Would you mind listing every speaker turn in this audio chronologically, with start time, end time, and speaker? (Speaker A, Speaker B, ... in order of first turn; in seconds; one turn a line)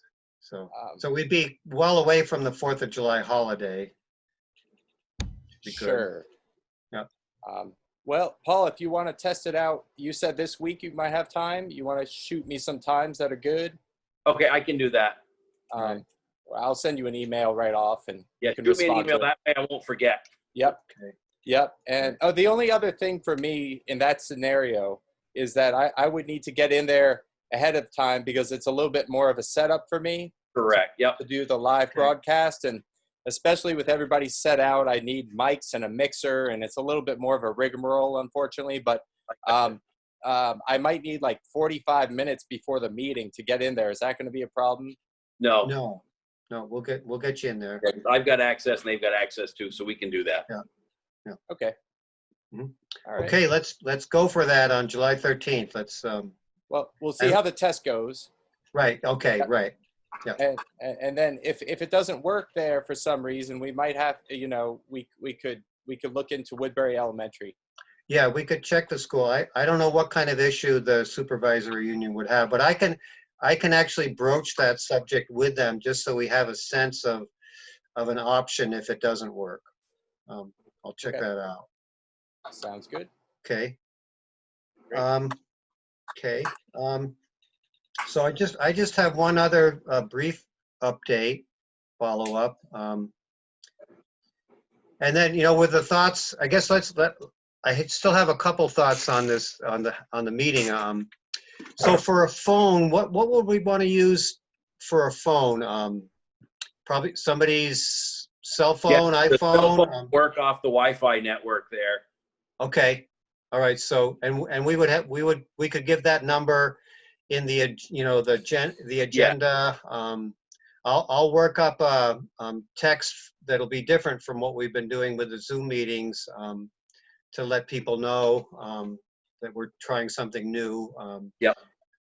Speaker A: 0.4-3.9
Speaker B: 0.7-1.0
Speaker A: 5.6-6.1
Speaker B: 5.6-6.3
Speaker B: 7.4-13.8
Speaker C: 14.3-15.2
Speaker B: 15.7-19.3
Speaker C: 18.4-20.2
Speaker B: 20.6-20.8
Speaker A: 20.9-21.1
Speaker B: 21.4-30.3
Speaker C: 30.6-31.2
Speaker B: 31.2-45.0
Speaker C: 45.4-45.7
Speaker A: 45.6-47.9
Speaker C: 47.8-50.5
Speaker B: 51.5-51.8
Speaker A: 52.5-56.4
Speaker B: 53.1-53.4
Speaker B: 56.7-58.3
Speaker A: 58.7-60.4
Speaker B: 60.4-67.5
Speaker A: 68.1-77.3
Speaker A: 78.0-79.7
Speaker A: 80.3-81.7
Speaker B: 82.5-83.1
Speaker A: 83.4-83.8
Speaker A: 84.9-85.4
Speaker A: 86.2-87.2
Speaker A: 88.0-91.4
Speaker A: 92.0-93.1
Speaker A: 95.0-101.1
Speaker A: 101.8-106.1
Speaker A: 106.8-110.1
Speaker C: 108.9-112.0
Speaker A: 112.6-126.7
Speaker A: 127.3-131.3